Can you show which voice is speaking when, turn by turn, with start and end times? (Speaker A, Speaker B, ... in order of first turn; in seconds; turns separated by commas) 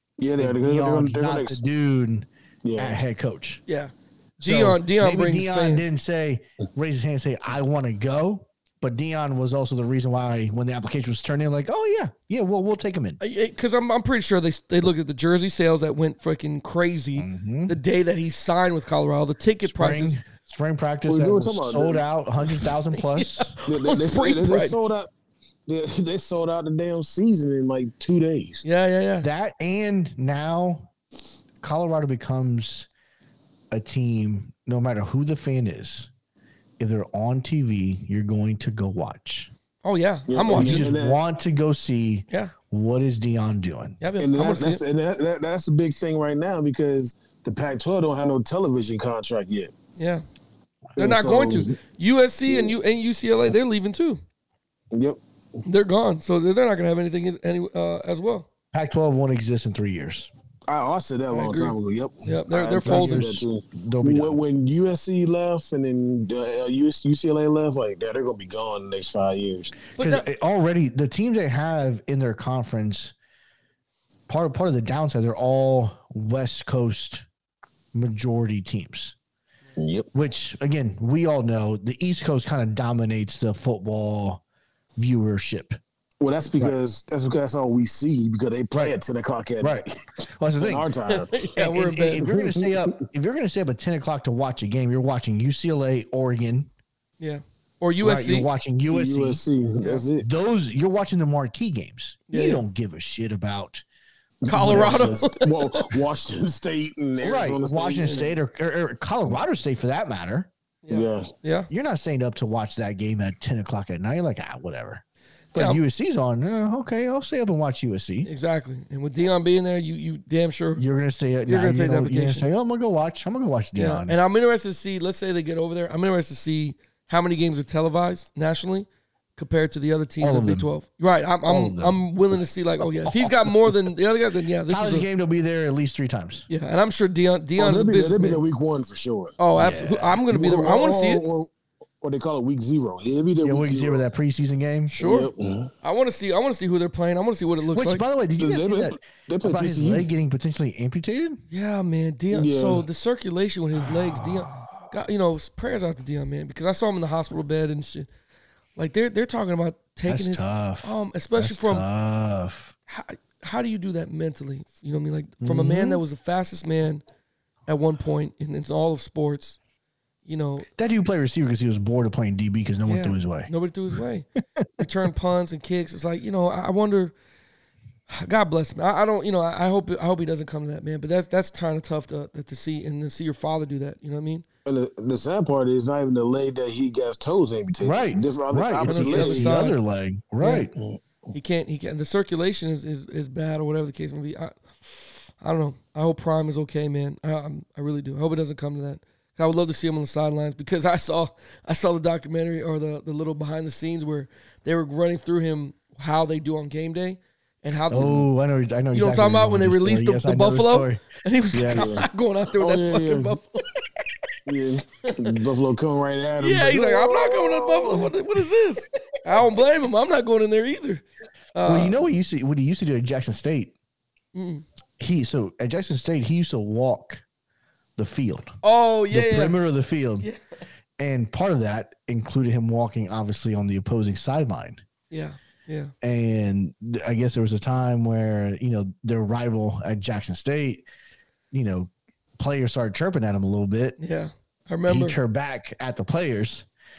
Speaker A: 0.2-1.6, Speaker B: 0.4-3.6, Speaker A: 2.6-3.0, Speaker C: 3.7-5.9, Speaker B: 4.4-13.2, Speaker C: 13.2-20.2, Speaker B: 17.2-17.7, Speaker B: 19.6-23.5, Speaker A: 21.1-22.0, Speaker C: 22.5-24.9, Speaker A: 23.7-25.1, Speaker A: 25.7-28.6, Speaker C: 28.6-29.3, Speaker B: 29.2-30.9, Speaker B: 31.6-32.9, Speaker B: 33.7-36.1, Speaker B: 36.8-39.5, Speaker C: 39.8-40.9, Speaker A: 40.3-41.2, Speaker B: 40.5-44.0, Speaker C: 44.0-44.8, Speaker A: 44.2-49.7, Speaker C: 50.0-50.2, Speaker A: 51.0-51.8, Speaker C: 51.0-54.2, Speaker A: 52.5-52.7, Speaker A: 54.9-55.2, Speaker C: 55.6-58.5, Speaker B: 58.7-60.3, Speaker A: 60.7-69.8, Speaker C: 61.3-63.3, Speaker B: 62.8-64.4, Speaker C: 70.0-70.3, Speaker B: 70.0-73.1, Speaker B: 74.3-77.2, Speaker B: 77.9-79.1, Speaker A: 79.8-80.1, Speaker B: 80.1-84.4, Speaker B: 85.0-85.8, Speaker A: 86.2-89.9, Speaker B: 89.6-90.9, Speaker A: 90.6-91.5, Speaker C: 91.1-92.2, Speaker B: 91.5-96.7, Speaker A: 92.2-92.9, Speaker C: 97.2-98.5, Speaker B: 98.0-99.4, Speaker A: 98.9-100.3, Speaker B: 100.2-103.8, Speaker C: 102.3-102.6, Speaker A: 104.4-108.2, Speaker C: 104.5-105.9, Speaker B: 104.5-105.2, Speaker B: 107.2-110.5, Speaker C: 110.8-111.7, Speaker A: 110.9-111.3, Speaker B: 111.7-115.0, Speaker C: 115.5-115.8, Speaker B: 115.5-118.3, Speaker C: 118.2-120.8, Speaker B: 120.8-124.2, Speaker C: 121.5-122.5, Speaker C: 123.8-135.1, Speaker B: 130.2-130.7, Speaker B: 131.4-132.0, Speaker B: 133.1-133.7, Speaker B: 134.7-136.5, Speaker C: 136.5-138.4, Speaker A: 137.6-139.3, Speaker C: 139.4-141.2, Speaker B: 139.6-140.2, Speaker A: 140.3-141.5, Speaker A: 142.0-144.0, Speaker B: 143.4-144.9, Speaker C: 144.9-145.3, Speaker A: 145.0-145.7, Speaker C: 145.8-148.0, Speaker B: 147.7-151.4, Speaker A: 148.4-150.1, Speaker C: 151.5-158.1, Speaker A: 152.3-152.8, Speaker B: 153.8-154.8, Speaker C: 158.8-161.8, Speaker B: 160.1-162.7, Speaker C: 162.9-167.0, Speaker B: 165.4-166.0, Speaker C: 167.7-169.6, Speaker C: 170.2-170.7, Speaker B: 170.8-173.5, Speaker C: 172.8-174.2, Speaker B: 174.6-174.9, Speaker C: 174.8-177.1, Speaker C: 178.1-184.4, Speaker A: 184.7-189.6, Speaker B: 187.8-190.7, Speaker C: 188.8-189.8, Speaker C: 190.4-190.7, Speaker C: 191.3-208.3, Speaker B: 207.9-212.1, Speaker C: 208.9-213.7, Speaker A: 211.7-213.4, Speaker A: 214.4-218.1, Speaker C: 215.0-215.3, Speaker C: 216.4-222.0, Speaker B: 221.6-223.7, Speaker C: 224.3-224.6, Speaker B: 225.0-227.2, Speaker B: 228.0-228.6, Speaker C: 228.6-229.6, Speaker B: 229.1-230.3, Speaker B: 231.0-234.8, Speaker C: 235.1-235.9, Speaker B: 236.0-240.8, Speaker B: 241.5-244.0, Speaker C: 244.0-245.2, Speaker B: 244.9-246.7